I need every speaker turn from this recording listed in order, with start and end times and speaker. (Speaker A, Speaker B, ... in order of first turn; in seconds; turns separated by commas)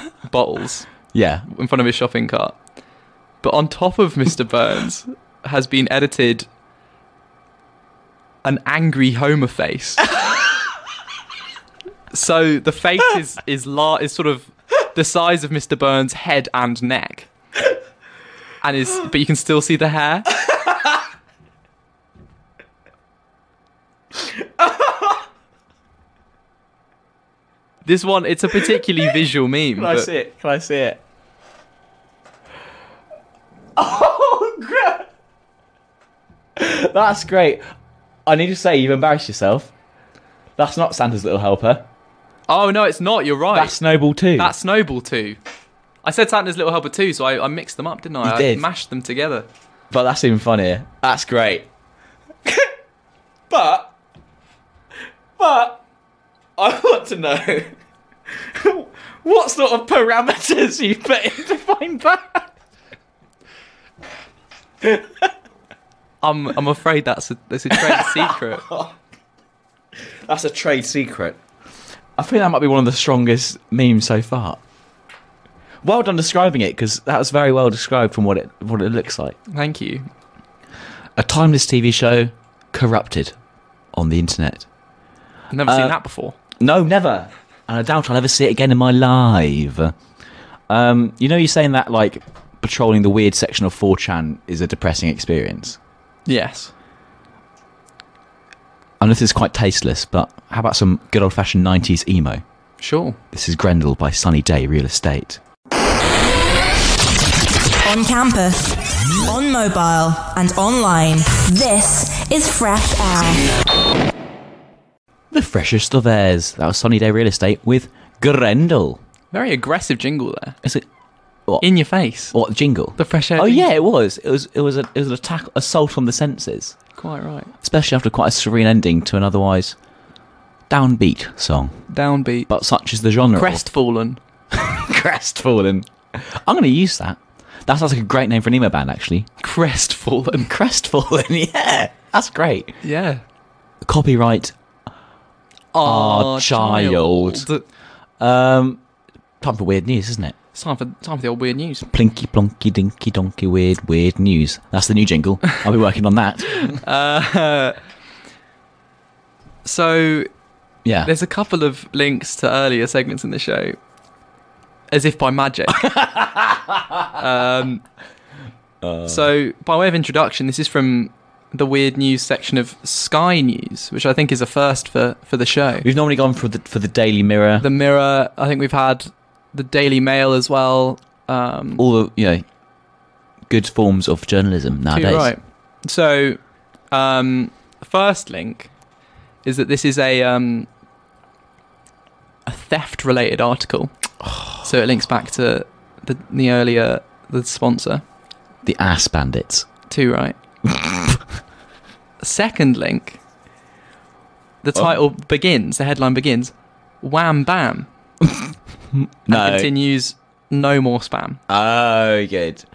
Speaker A: 0.2-0.9, Speaker B: 1.1-1.5, Speaker A: 1.5-2.6, Speaker A: 3.4-6.5, Speaker A: 8.4-10.1, Speaker A: 12.1-17.3, Speaker A: 18.6-20.3, Speaker B: 24.2-25.2, Speaker A: 27.9-30.1, Speaker B: 29.8-31.0, Speaker B: 33.8-35.1, Speaker B: 36.6-37.6, Speaker B: 38.3-39.7, Speaker B: 40.6-41.9, Speaker A: 42.5-43.8, Speaker B: 43.5-44.5, Speaker A: 44.4-45.4, Speaker A: 46.0-49.5, Speaker B: 48.2-48.6, Speaker B: 49.9-51.7, Speaker B: 53.5-53.9, Speaker B: 55.4-55.8, Speaker B: 56.6-57.8, Speaker B: 58.3-62.5, Speaker B: 64.8-65.3, Speaker A: 66.2-68.6, Speaker B: 67.7-68.9, Speaker B: 70.3-71.4, Speaker B: 72.2-74.6, Speaker B: 75.8-79.4, Speaker A: 79.5-80.1, Speaker B: 81.2-83.3, Speaker B: 83.9-84.7, Speaker A: 85.5-86.4, Speaker B: 85.6-86.0, Speaker B: 86.6-89.9, Speaker B: 90.7-95.8, Speaker A: 96.3-96.7, Speaker B: 99.0-102.4, Speaker A: 102.8-103.2, Speaker B: 103.3-105.4, Speaker C: 107.8-113.5, Speaker B: 115.3-119.0, Speaker A: 119.3-120.6, Speaker A: 121.6-122.3, Speaker B: 122.3-126.8, Speaker A: 123.0-123.7, Speaker A: 127.0-127.5, Speaker B: 127.6-129.8, Speaker B: 130.7-131.8, Speaker A: 131.9-132.5, Speaker B: 132.5-133.6, Speaker A: 133.4-134.2, Speaker B: 134.5-139.3, Speaker A: 139.4-140.5, Speaker B: 140.3-142.8, Speaker A: 142.8-143.2, Speaker B: 143.8-144.5, Speaker A: 145.7-147.6, Speaker B: 145.8-147.5, Speaker B: 148.2-148.8, Speaker B: 149.4-150.3, Speaker A: 150.5-151.9, Speaker B: 151.9-156.8, Speaker A: 156.8-157.8, Speaker A: 159.6-160.3, Speaker B: 160.8-161.1, Speaker A: 161.0-163.8, Speaker A: 164.9-165.9, Speaker B: 165.8-167.2, Speaker A: 167.2-167.8, Speaker B: 168.8-169.3, Speaker A: 169.1-175.9, Speaker B: 175.8-177.7, Speaker A: 177.6-181.8, Speaker B: 181.8-182.4, Speaker B: 183.5-185.3, Speaker A: 184.9-186.4, Speaker A: 186.9-188.7, Speaker A: 189.4-190.7, Speaker A: 192.5-193.9, Speaker B: 194.2-194.5, Speaker A: 194.6-198.0, Speaker B: 198.6-199.7, Speaker A: 199.9-200.4, Speaker B: 200.6-201.2, Speaker A: 202.2-203.2, Speaker A: 204.6-207.9, Speaker B: 208.2-209.7, Speaker A: 209.3-211.4, Speaker B: 211.5-212.7